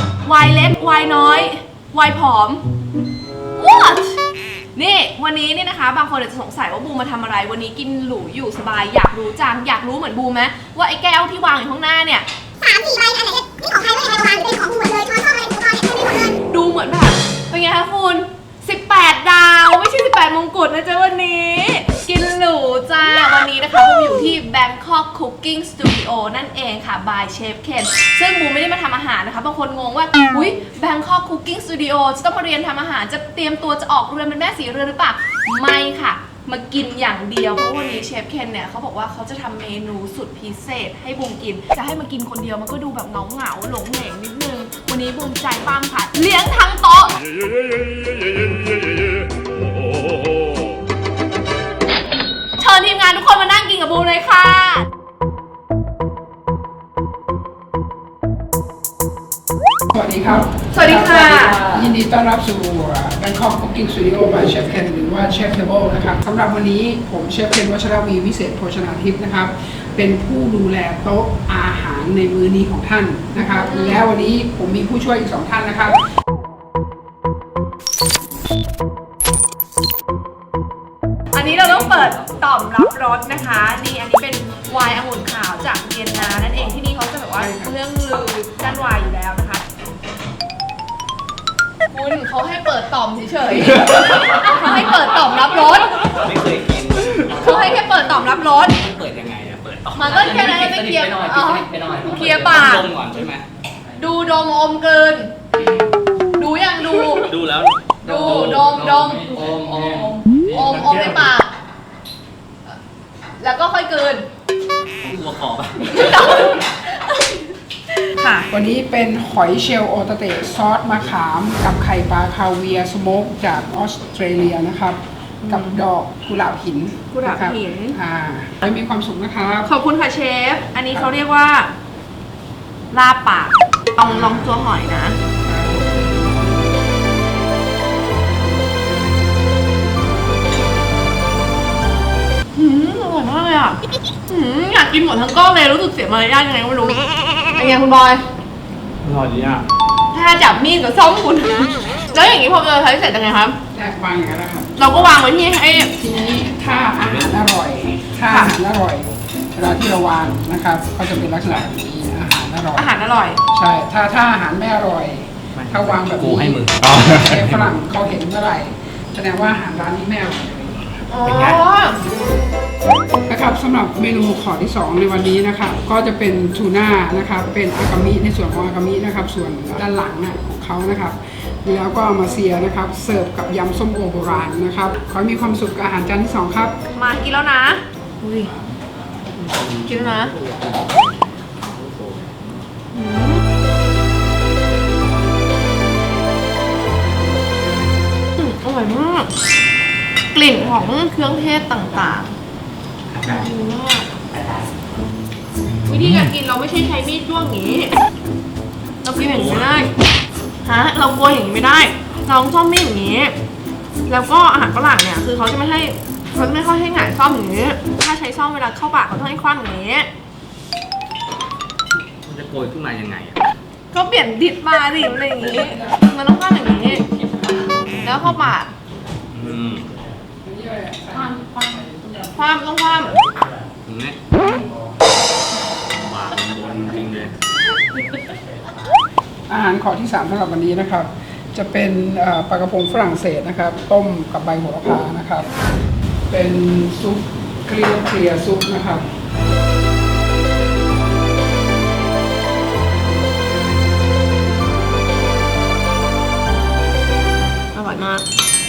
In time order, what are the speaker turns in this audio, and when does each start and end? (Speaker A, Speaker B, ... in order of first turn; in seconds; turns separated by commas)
Speaker A: 0.2-2.6, Speaker A: 3.6-4.2, Speaker A: 4.7-12.3, Speaker B: 12.6-16.0, Speaker A: 16.1-47.2, Speaker A: 52.6-54.9, Speaker C: 59.9-76.0, Speaker A: 60.7-61.7, Speaker A: 73.4-74.1, Speaker A: 81.3-89.6, Speaker C: 87.4-87.8, Speaker A: 91.9-96.2, Speaker D: 96.0-103.5, Speaker A: 97.3-98.8, Speaker A: 99.9-102.9, Speaker A: 104.0-105.3, Speaker A: 106.4-107.3, Speaker D: 107.2-110.1, Speaker A: 108.0-111.5, Speaker D: 110.8-111.1, Speaker A: 113.4-114.2, Speaker D: 115.0-116.3, Speaker A: 115.8-118.5, Speaker C: 118.5-129.7, Speaker A: 125.4-125.8, Speaker A: 127.1-128.0, Speaker A: 129.7-131.7, Speaker A: 132.9-135.2, Speaker C: 134.1-134.6, Speaker C: 135.4-136.1, Speaker A: 142.6-143.8, Speaker A: 144.3-148.2, Speaker D: 149.0-149.7, Speaker A: 150.1-153.6, Speaker C: 153.7-154.8, Speaker A: 154.8-155.9, Speaker C: 155.9-162.9, Speaker A: 158.3-158.6, Speaker A: 162.8-163.4, Speaker C: 163.5-171.0, Speaker D: 165.6-167.7, Speaker A: 171.1-172.0, Speaker D: 171.3-171.6, Speaker C: 173.3-186.8, Speaker A: 187.0-188.5, Speaker D: 189.3-192.4, Speaker A: 189.8-190.3, Speaker A: 192.9-193.4, Speaker A: 198.3-199.3, Speaker A: 200.3-202.3, Speaker A: 203.2-204.1, Speaker A: 205.8-207.9, Speaker A: 209.0-209.9, Speaker D: 209.2-209.8, Speaker A: 210.7-213.3, Speaker A: 214.1-220.1, Speaker D: 222.2-223.4, Speaker A: 223.9-227.1, Speaker C: 225.4-226.0, Speaker A: 227.9-228.7, Speaker D: 229.3-229.9, Speaker C: 230.4-232.4, Speaker A: 232.3-233.2, Speaker D: 233.8-234.3, Speaker D: 236.0-237.3, Speaker C: 239.5-245.6, Speaker A: 245.5-245.8, Speaker C: 246.3-249.1, Speaker A: 257.7-258.2